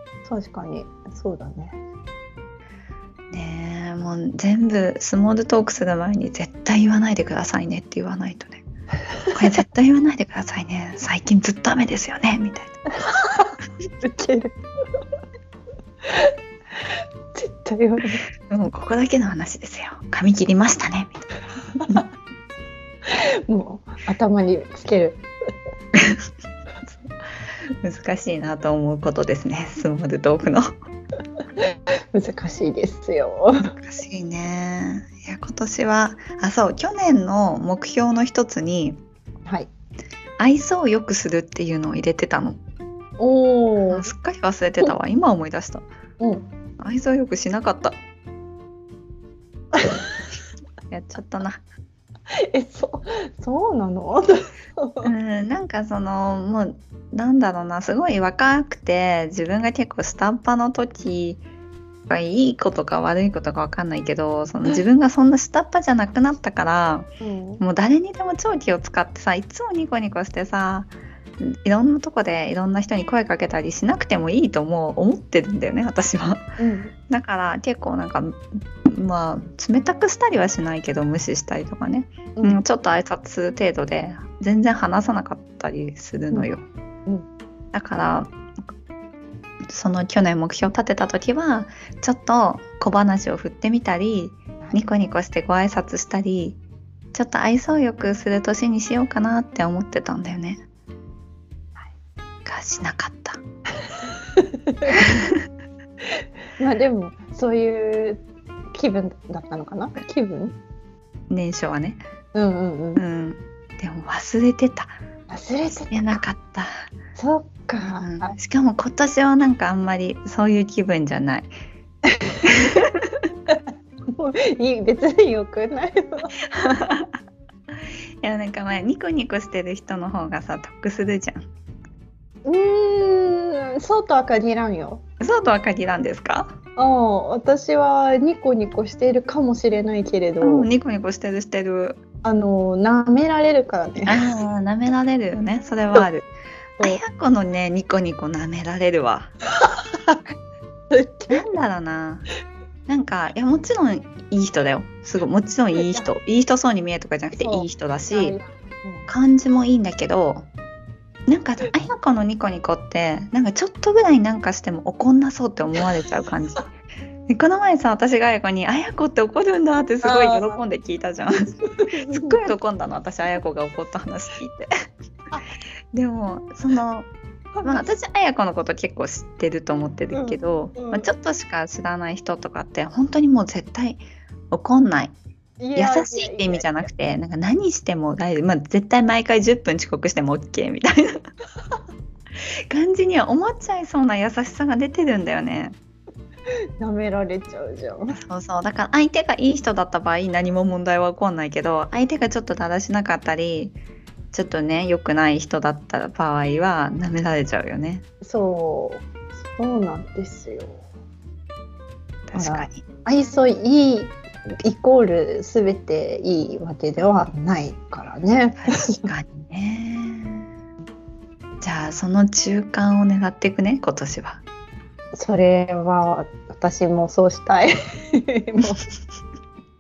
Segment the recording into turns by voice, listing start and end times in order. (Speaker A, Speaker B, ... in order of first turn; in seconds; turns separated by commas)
Speaker A: 0.3-1.8, Speaker B: 3.3-8.6, Speaker B: 9.3-12.8, Speaker A: 12.9-14.6, Speaker A: 17.3-18.2, Speaker B: 18.5-21.3, Speaker A: 23.1-25.2, Speaker B: 27.7-30.7, Speaker A: 31.6-33.7, Speaker B: 33.7-39.0, Speaker B: 40.4-42.6, Speaker A: 43.2-44.1, Speaker B: 43.9-45.9, Speaker A: 46.2-46.5, Speaker B: 46.8-48.0, Speaker A: 49.8-50.0, Speaker B: 50.9-51.6, Speaker A: 52.5-55.1, Speaker B: 55.0-61.4, Speaker B: 62.1-67.1, Speaker A: 67.2-67.6, Speaker B: 67.6-76.5, Speaker A: 76.6-76.9, Speaker B: 77.1-86.7, Speaker A: 82.4-82.6, Speaker B: 87.7-88.4, Speaker B: 89.7-96.6, Speaker B: 97.1-100.6, Speaker B: 102.5-103.4, Speaker A: 104.4-105.0, Speaker B: 104.9-105.5, Speaker A: 106.6-108.2, Speaker A: 108.7-110.5, Speaker B: 111.3-112.0, Speaker A: 112.3-113.0, Speaker B: 113.0-115.0, Speaker A: 115.3-116.2, Speaker B: 115.9-116.9, Speaker A: 117.2-118.3, Speaker B: 117.8-121.5, Speaker A: 122.2-122.5, Speaker B: 122.5-123.2, Speaker A: 124.2-126.3, Speaker B: 126.5-127.2, Speaker B: 128.2-131.5, Speaker A: 132.5-135.0, Speaker B: 135.2-136.6, Speaker A: 136.8-140.7, Speaker B: 140.4-142.0, Speaker A: 142.2-144.2, Speaker B: 144.1-146.3, Speaker B: 146.8-149.3, Speaker A: 149.6-150.2, Speaker A: 150.9-151.4, Speaker B: 151.3-152.3, Speaker B: 152.9-158.4, Speaker A: 155.8-156.1, Speaker A: 157.3-159.1, Speaker B: 159.1-160.5, Speaker B: 161.3-166.7, Speaker B: 167.3-171.5, Speaker A: 170.0-170.6, Speaker A: 171.8-172.4, Speaker B: 172.0-174.7, Speaker B: 175.9-177.1, Speaker A: 177.6-177.9, Speaker B: 177.6-185.2, Speaker A: 180.1-181.1, Speaker A: 185.6-186.7, Speaker B: 185.8-191.2, Speaker B: 192.7-195.8, Speaker A: 196.8-198.2, Speaker B: 198.1-203.8, Speaker B: 204.3-208.1, Speaker A: 208.2-210.8, Speaker B: 212.3-212.8, Speaker A: 212.3-219.1, Speaker B: 218.6-220.5, Speaker B: 221.6-224.4, Speaker A: 225.1-228.8